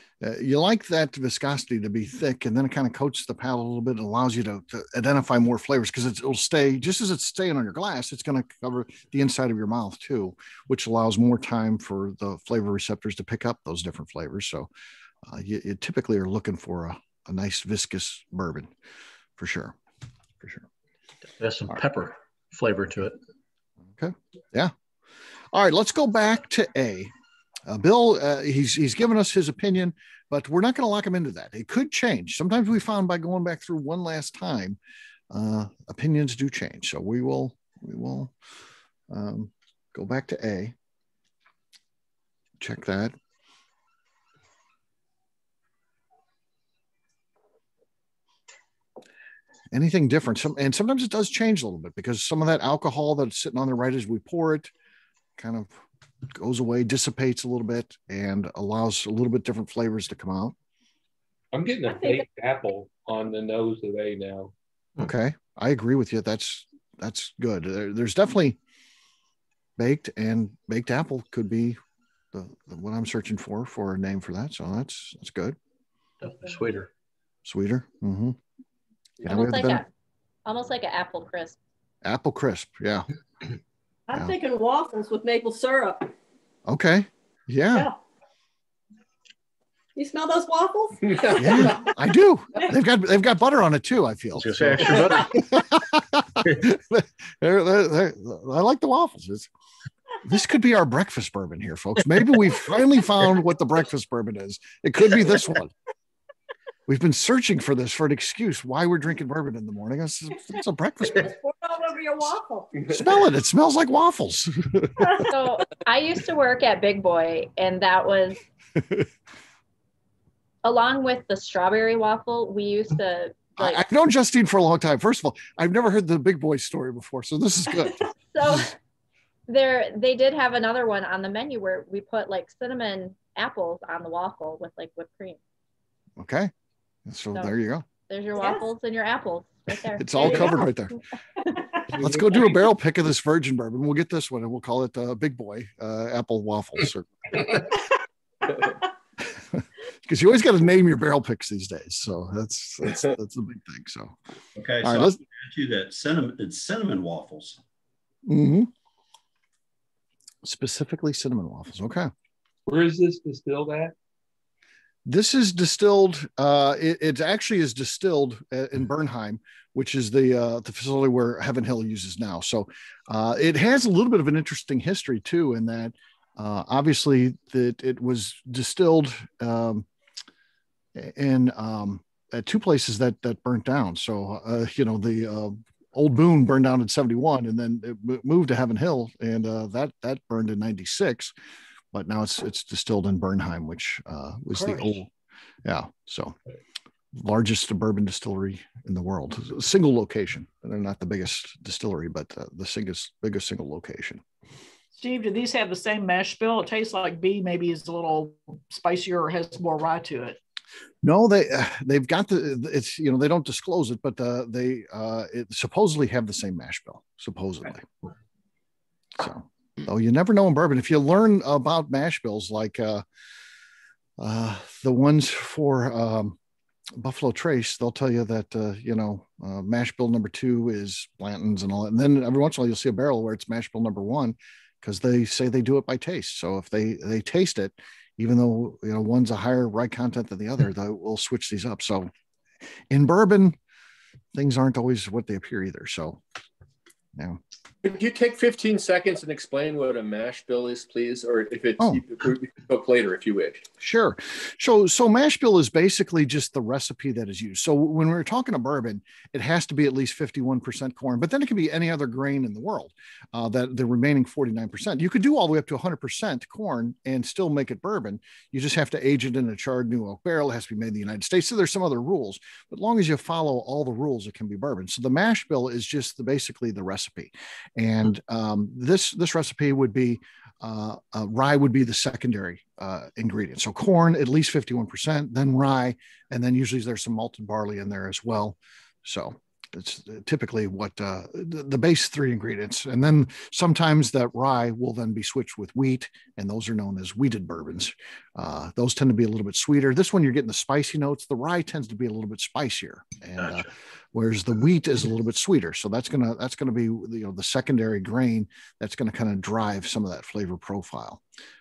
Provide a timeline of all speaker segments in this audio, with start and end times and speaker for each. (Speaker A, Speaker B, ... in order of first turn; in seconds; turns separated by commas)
Speaker A: 0.2-14.7, Speaker A: 15.3-18.7, Speaker A: 19.4-19.8, Speaker A: 20.4-20.7, Speaker B: 21.4-23.2, Speaker A: 24.0-24.7, Speaker A: 25.5-27.1, Speaker A: 27.7-34.8, Speaker A: 35.3-38.3, Speaker A: 39.1-40.7, Speaker A: 42.6-43.1, Speaker A: 49.7-54.7, Speaker A: 55.4-55.8, Speaker A: 56.4-60.5, Speaker C: 61.5-64.5, Speaker D: 61.9-62.2, Speaker A: 65.0-68.6, Speaker A: 69.8-71.8, Speaker A: 72.3-75.6, Speaker B: 76.2-76.9, Speaker A: 77.5-78.4, Speaker A: 79.2-79.8, Speaker E: 79.2-79.9, Speaker E: 80.5-81.6, Speaker A: 82.0-83.1, Speaker D: 84.1-86.1, Speaker A: 86.7-87.9, Speaker D: 90.0-91.9, Speaker A: 91.4-99.5, Speaker B: 94.3-95.5, Speaker A: 100.2-105.7, Speaker A: 106.9-111.3, Speaker D: 111.0-112.8, Speaker A: 112.9-115.1, Speaker E: 115.2-118.5, Speaker A: 118.8-119.1, Speaker E: 120.6-123.8, Speaker A: 123.6-128.7, Speaker E: 128.3-128.8, Speaker E: 129.5-135.4, Speaker A: 136.2-136.5, Speaker A: 137.1-137.8, Speaker E: 138.1-140.8, Speaker D: 138.4-138.7, Speaker A: 140.0-141.0, Speaker D: 140.2-140.4, Speaker A: 142.0-147.6, Speaker A: 149.3-154.2, Speaker F: 154.6-157.6, Speaker A: 154.8-155.2, Speaker A: 158.3-158.7, Speaker A: 160.4-162.1, Speaker C: 162.7-163.9, Speaker A: 165.1-179.9, Speaker A: 180.9-191.3, Speaker A: 191.9-195.1, Speaker G: 194.5-195.0, Speaker A: 195.7-196.4, Speaker A: 197.1-204.2, Speaker G: 204.9-210.4, Speaker A: 211.0-217.9, Speaker A: 219.2-223.0, Speaker A: 224.2-226.4, Speaker A: 227.0-242.1, Speaker A: 242.9-243.6, Speaker A: 244.3-246.2, Speaker H: 247.8-253.7, Speaker A: 253.8-311.2